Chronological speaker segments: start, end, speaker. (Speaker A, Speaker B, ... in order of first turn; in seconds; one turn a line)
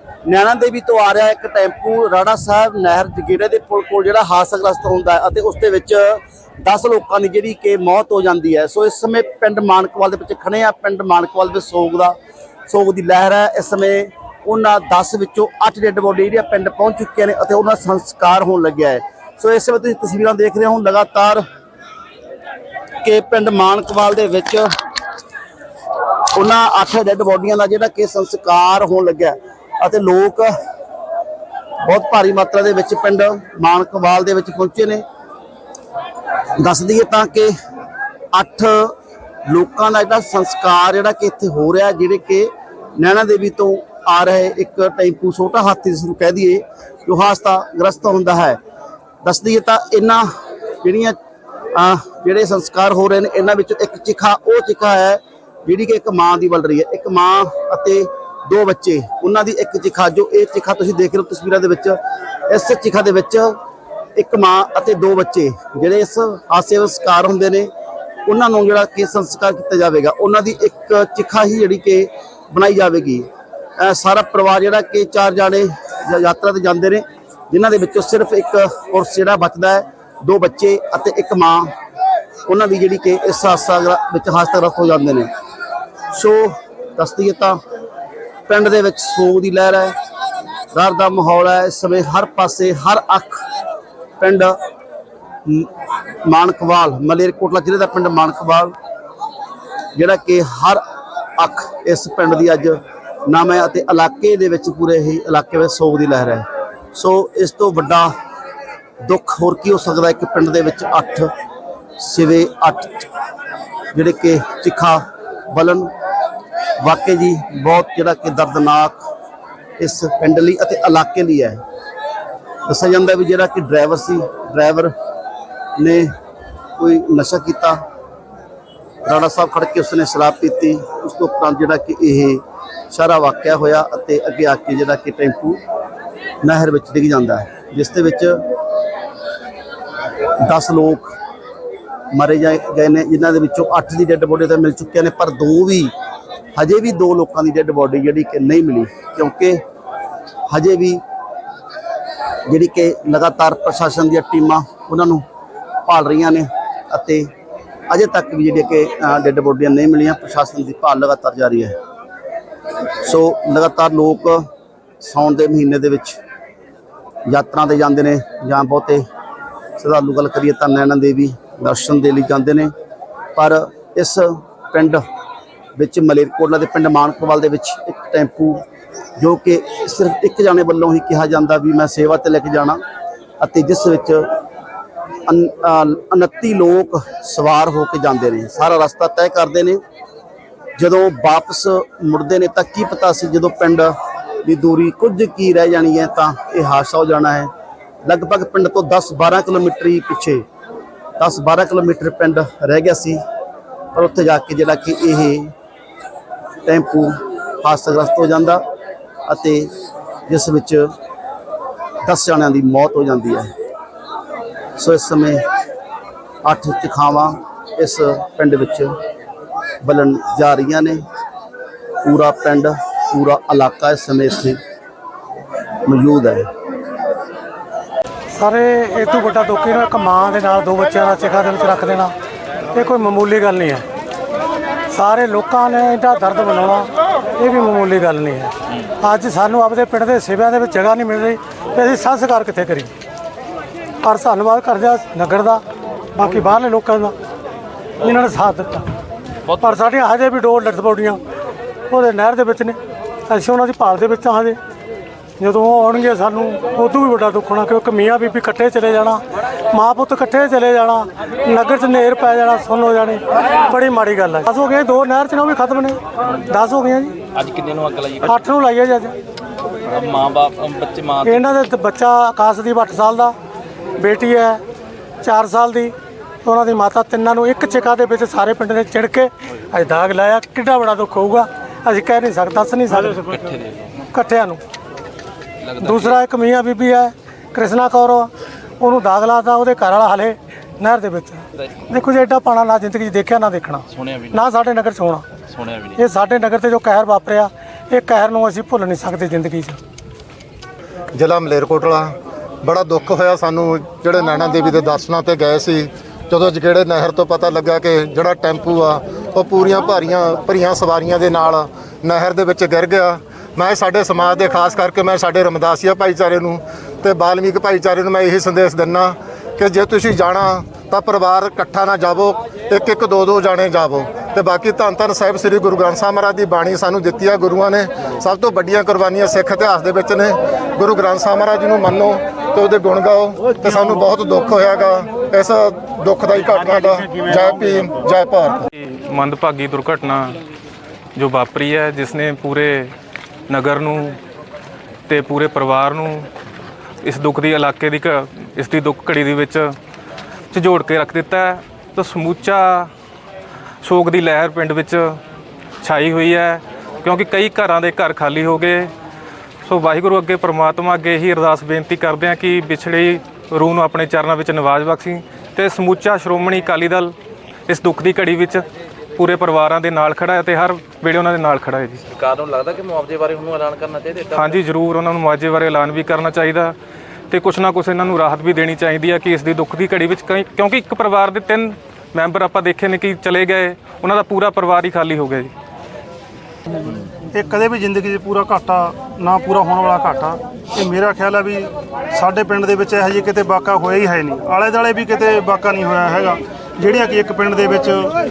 Speaker A: 0.3-12.2
Speaker A: 12.7-21.4
Speaker A: 23.0-24.7
Speaker A: 26.4-30.5
Speaker A: 31.8-35.0
Speaker A: 36.6-37.5
Speaker A: 38.3-38.9
Speaker A: 39.5-48.6
Speaker A: 49.2-50.3
Speaker A: 50.8-51.2
Speaker A: 51.8-62.0
Speaker A: 62.5-63.6
Speaker A: 64.2-67.7
Speaker A: 68.3-81.7
Speaker A: 82.5-85.3
Speaker A: 86.1-87.6
Speaker A: 88.5-89.9
Speaker A: 90.7-93.4
Speaker A: 94.2-94.6
Speaker A: 96.2-98.7
Speaker A: 100.0-100.8
Speaker A: 101.4-108.1
Speaker A: 109.0-111.3
Speaker A: 112.0-113.1
Speaker A: 113.9-115.9
Speaker A: 116.8-119.0
Speaker A: 119.8-121.6
Speaker A: 122.7-124.9
Speaker A: 125.8-126.1
Speaker A: 126.8-127.8
Speaker A: 129.1-135.6
Speaker A: 136.4-138.4
Speaker A: 140.4-141.1
Speaker A: 142.1-145.9
Speaker A: 146.6-149.6
Speaker A: 150.5-151.0
Speaker A: 152.5-155.2
Speaker A: 155.9-157.3
Speaker A: 157.9-161.8
Speaker A: 163.0-164.4
Speaker A: 165.0-166.2
Speaker A: 167.3-169.1
Speaker A: 169.8-172.7
Speaker A: 173.4-175.0
Speaker A: 175.8-178.6
Speaker A: 179.2-182.8
Speaker A: 183.4-184.3
Speaker A: 185.3-189.8
Speaker A: 190.8-193.9
Speaker A: 194.4-197.5
Speaker A: 198.1-200.4
Speaker A: 201.2-203.2
Speaker A: 203.9-205.5
Speaker A: 206.7-208.6
Speaker A: 209.3-209.7
Speaker A: 210.3-210.9
Speaker A: 212.1-213.5
Speaker A: 214.8-215.4
Speaker A: 216.4-218.9
Speaker A: 219.8-221.0
Speaker A: 222.0-224.6
Speaker A: 225.8-226.4
Speaker B: 228.3-232.1
Speaker B: 232.7-233.8
Speaker B: 234.9-242.9
Speaker B: 244.0-245.6
Speaker B: 246.2-247.1
Speaker B: 248.0-248.8
Speaker B: 249.6-251.2
Speaker B: 251.9-252.8
Speaker B: 253.3-254.6
Speaker B: 255.4-259.2
Speaker B: 259.7-267.2
Speaker C: 267.3-268.5
Speaker B: 268.2-269.1
Speaker C: 269.9-271.6
Speaker B: 271.2-273.3
Speaker B: 274.0-274.6
Speaker B: 275.2-275.9
Speaker B: 276.4-283.6
Speaker C: 283.0-283.6
Speaker B: 284.1-284.6
Speaker C: 285.7-286.2
Speaker B: 285.8-295.3
Speaker C: 294.0-294.4
Speaker C: 295.6-296.0
Speaker B: 295.9-299.8
Speaker D: 301.1-338.7
Speaker E: 338.8-340.4
Speaker E: 341.2-342.9
Speaker E: 343.5-344.2
Speaker E: 345.1-346.3
Speaker E: 347.0-349.7
Speaker E: 350.5-352.9
Speaker E: 353.8-355.2
Speaker E: 355.8-358.9
Speaker E: 359.6-367.1
Speaker E: 367.7-368.6
Speaker E: 369.2-372.0
Speaker C: 372.1-374.6
Speaker E: 374.3-376.8
Speaker E: 377.3-385.5
Speaker F: 387.4-398.1